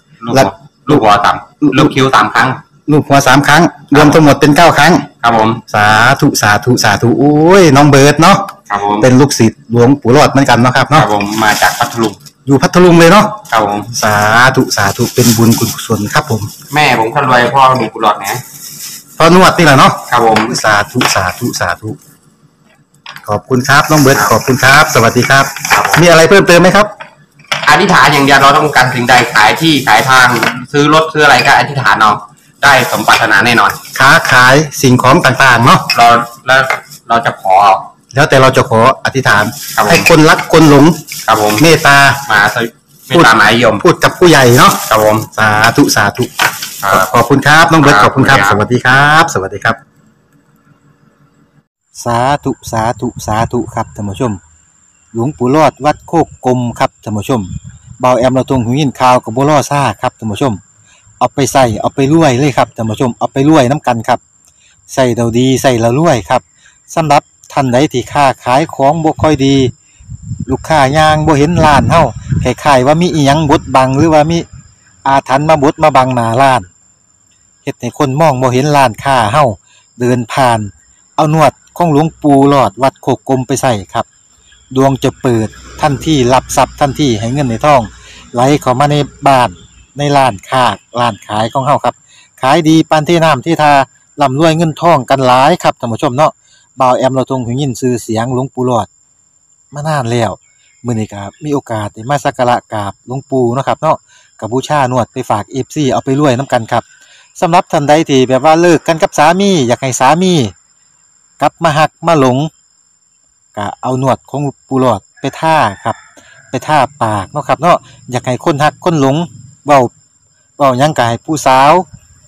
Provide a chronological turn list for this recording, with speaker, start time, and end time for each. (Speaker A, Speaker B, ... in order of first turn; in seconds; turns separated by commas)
Speaker A: 0.2-2.6, Speaker B: 0.3-1.0, Speaker B: 1.6-1.9, Speaker B: 2.9-5.1, Speaker A: 3.9-4.3, Speaker A: 5.2-5.6, Speaker B: 5.7-11.1, Speaker A: 8.7-9.1, Speaker A: 10.9-12.2, Speaker B: 12.4-16.5, Speaker A: 13.5-13.9, Speaker A: 16.7-18.4, Speaker B: 19.2-22.0, Speaker A: 20.1-20.6, Speaker B: 23.2-26.9, Speaker A: 25.7-26.0, Speaker A: 27.6-33.8, Speaker B: 33.9-35.9, Speaker A: 35.9-37.9, Speaker B: 38.1-42.2, Speaker A: 39.7-40.1, Speaker A: 41.3-41.7, Speaker A: 42.2-43.8, Speaker B: 43.1-49.8, Speaker A: 44.8-45.3, Speaker A: 46.8-47.1, Speaker A: 47.8-48.6, Speaker B: 52.0-54.4, Speaker B: 55.1-60.6, Speaker B: 61.2-64.2, Speaker B: 64.9-69.7, Speaker B: 70.5-74.5, Speaker B: 75.0-76.7, Speaker B: 77.6-84.0, Speaker B: 84.7-98.9, Speaker B: 99.7-106.8, Speaker B: 107.4-110.5, Speaker B: 111.4-112.5, Speaker B: 113.5-116.0, Speaker B: 116.5-119.9, Speaker B: 120.6-121.9